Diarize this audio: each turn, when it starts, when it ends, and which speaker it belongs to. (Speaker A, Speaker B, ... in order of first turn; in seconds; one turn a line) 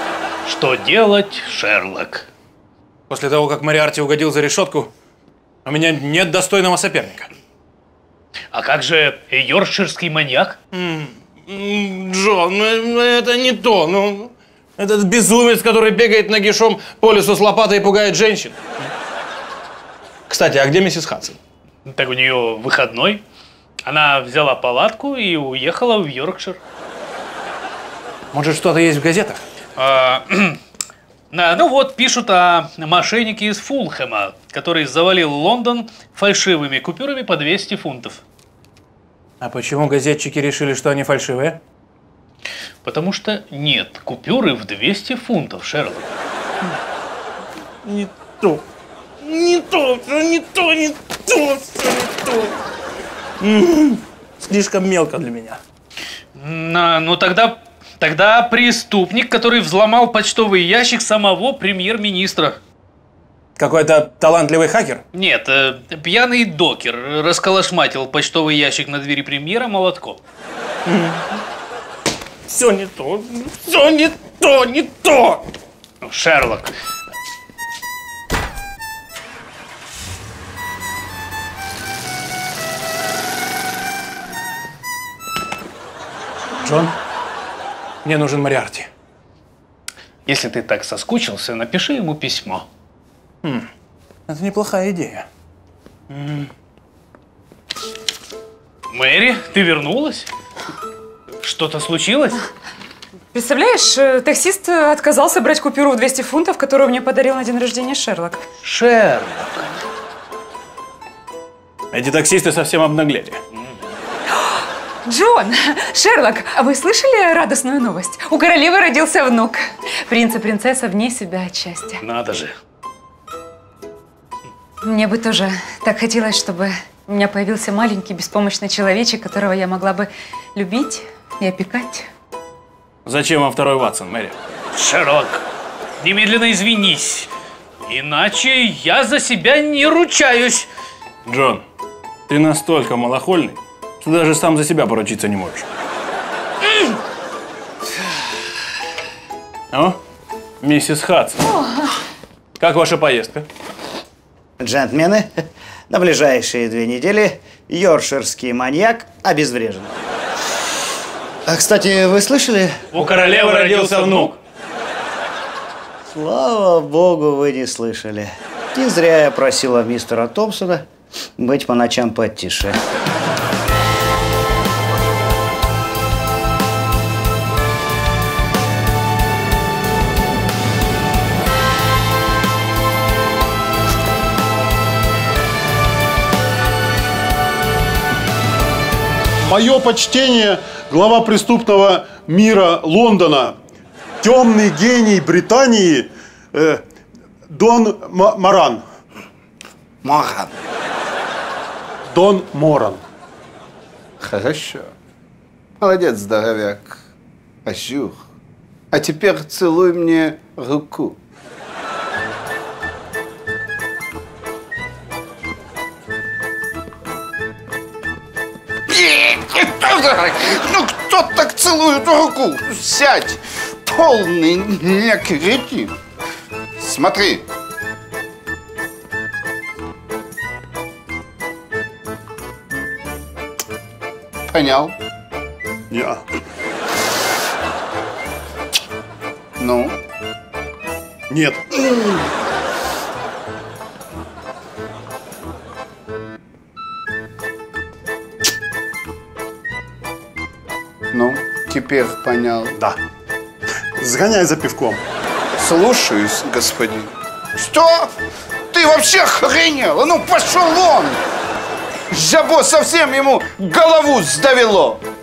Speaker A: 0.5-2.3
Speaker B: 3.1-4.9
Speaker B: 5.7-7.3
Speaker A: 8.5-10.6
Speaker B: 10.7-18.6
Speaker B: 20.3-21.4
Speaker A: 21.9-23.2
Speaker A: 23.9-26.6
Speaker B: 28.3-29.4
Speaker A: 29.8-30.6
Speaker A: 31.3-38.2
Speaker B: 39.4-41.6
Speaker A: 42.9-46.1
Speaker B: 47.8-48.6
Speaker B: 49.2-52.5
Speaker B: 53.4-55.6
Speaker A: 56.4-62.6
Speaker B: 63.6-65.0
Speaker A: 65.1-70.2
Speaker B: 70.8-71.4
Speaker B: 72.5-75.4
Speaker A: 76.0-76.7
Speaker B: 86.6-86.9
Speaker B: 88.0-88.9
Speaker A: 90.2-92.7
Speaker B: 93.4-93.7
Speaker B: 94.3-95.2
Speaker B: 96.1-96.5
Speaker A: 98.9-100.3
Speaker A: 101.4-102.4
Speaker C: 103.3-108.4
Speaker A: 108.6-109.7
Speaker B: 111.9-113.4
Speaker C: 115.1-122.0
Speaker A: 122.0-122.5
Speaker C: 124.8-132.1
Speaker B: 133.0-134.4
Speaker A: 134.8-135.4
Speaker A: 136.0-137.3
Speaker A: 137.9-140.7
Speaker B: 141.2-141.6
Speaker B: 142.3-145.7
Speaker B: 149.7-150.0
Speaker B: 150.6-151.4
Speaker B: 152.6-153.4
Speaker D: 154.6-159.9
Speaker D: 161.4-162.8
Speaker A: 162.9-164.4
Speaker B: 162.9-164.3
Speaker D: 166.1-170.8
Speaker D: 171.4-172.8
Speaker E: 189.4-193.5
Speaker E: 194.2-196.8
Speaker E: 197.5-198.8
Speaker F: 200.0-200.5
Speaker E: 202.1-203.0
Speaker F: 204.2-204.9
Speaker F: 205.8-207.0
Speaker F: 207.6-208.2
Speaker F: 208.9-211.2
Speaker F: 218.9-225.9
Speaker F: 226.8-227.4
Speaker F: 234.5-234.9
Speaker E: 235.9-236.2
Speaker F: 239.6-240.0
Speaker E: 241.3-241.6
Speaker F: 251.1-252.8
Speaker E: 254.0-255.0
Speaker F: 255.6-258.1
Speaker F: 258.7-261.2
Speaker F: 262.1-265.0